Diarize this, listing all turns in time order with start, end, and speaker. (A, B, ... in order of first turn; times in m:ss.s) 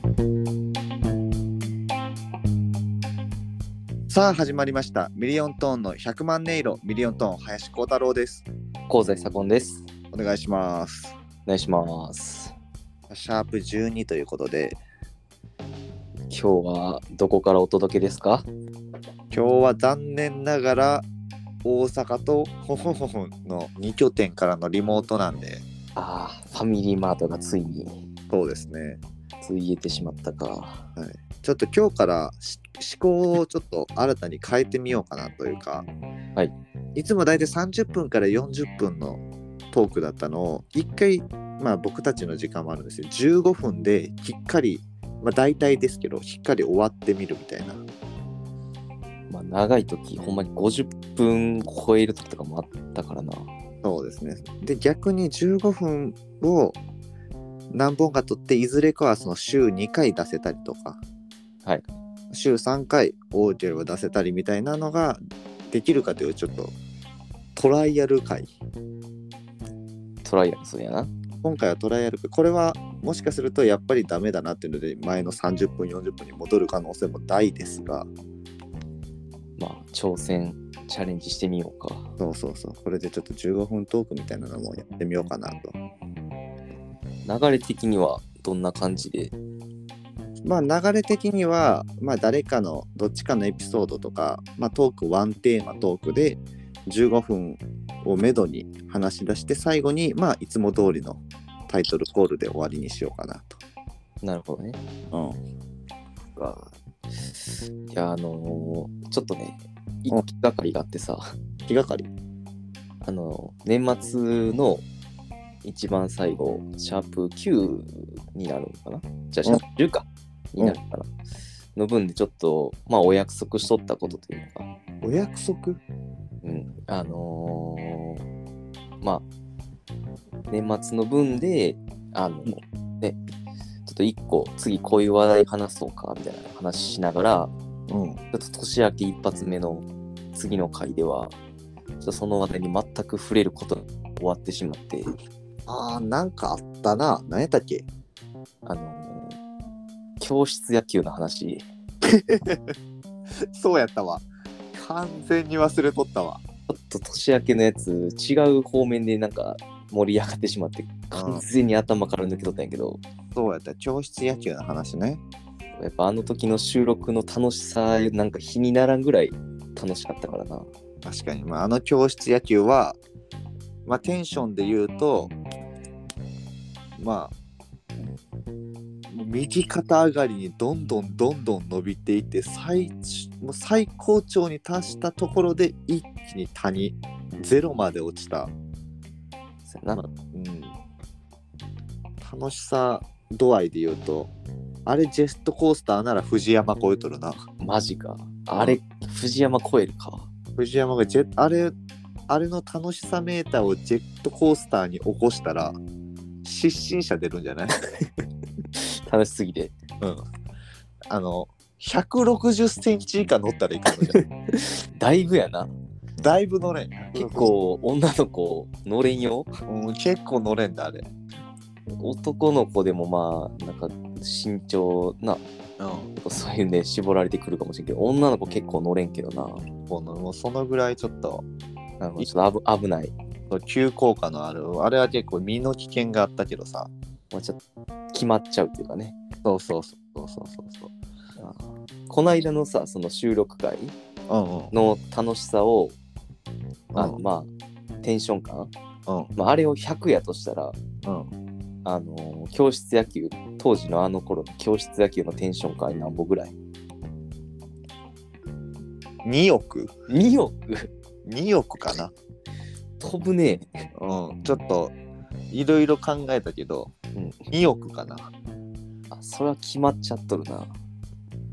0:04.1-0:08.5 A
0:08.9-0:09.8 B
0:10.1-0:11.2 A
0:11.5-0:12.6 B
0:13.1-0:14.8 A
0:16.3-0:18.5 B
0:19.3-0:21.1 A
0:21.6-0:25.6 A
0:26.0-0:28.0 B
0:28.3-0:29.0 A
0:29.4-0:30.8 B
0:31.0-0:35.9 A
0:37.0-0:47.8 A
0:49.3-0:53.5 B
0:53.8-0:56.8 A
0:57.7-1:01.0 A
1:02.3-1:06.7 A
1:07.6-1:08.5 A
1:10.2-1:11.1 B
1:11.4-1:18.1 A
1:19.6-1:22.1 B
1:22.2-1:25.7 A
1:27.3-1:29.3 B
1:30.4-1:43.6 A
1:44.2-1:44.8 B
1:45.1-1:45.4 A
1:47.9-1:51.2 B
1:51.7-1:52.1 A
1:53.0-1:54.8 B
1:55.6-2:01.1 B
2:01.8-2:04.7 B
2:05.0-2:05.8 A
2:06.4-2:08.2 B
2:10.5-2:13.2 B
2:13.9-2:17.5 B
2:17.9-2:18.2 A
2:18.3-2:21.4 B
2:22.0-2:25.1 B
2:25.7-2:27.9 A
2:28.6-2:29.4 B
2:30.2-2:31.6 B
2:32.1-2:32.7 A
2:33.5-2:36.4 A
2:36.7-2:43.0 B
2:41.1-2:41.4 A
2:43.4-2:45.2 A
2:45.8-2:50.7 B
2:51.0-2:53.0 A
2:53.9-2:55.3 A
2:57.0-2:57.3 A
2:59.1-3:08.5 A
3:09.7-3:10.0 B
3:10.0-3:10.7 A
3:12.2-3:14.3 A
3:14.9-3:17.4 A
3:17.6-3:20.3 B
3:20.6-3:21.7 A
3:22.3-3:25.8 A
3:26.4-3:27.8 A
3:28.8-3:29.8 B
3:31.1-3:34.2 A
3:34.1-3:35.7 B
3:36.2-3:37.5 A
3:37.1-3:39.5 B
3:39.7-3:41.1 A
3:42.0-3:45.4 B
3:45.8-3:46.1 A
3:46.2-3:49.7 B
3:49.9-3:51.4 A
3:52.0-3:53.1 B
3:53.5-3:56.9 A
3:57.3-3:57.6 B
3:58.1-3:59.2 B
3:59.4-4:00.9 A
4:01.4-4:04.0 B
4:04.3-4:04.7 A
4:04.7-4:06.0 B
4:06.9-4:07.2 A
4:07.0-4:07.5 B
4:08.0-4:08.7 B
4:09.4-4:10.8 B
4:11.8-4:16.6 B
4:19.2-4:19.9 A
4:20.1-4:20.9 B
4:21.2-4:22.1 A
4:23.0-4:23.7 B
4:24.0-4:24.9 A
4:25.5-4:26.9 A
4:27.2-4:27.4 B
4:27.5-4:28.3 A
4:29.1-4:30.7 B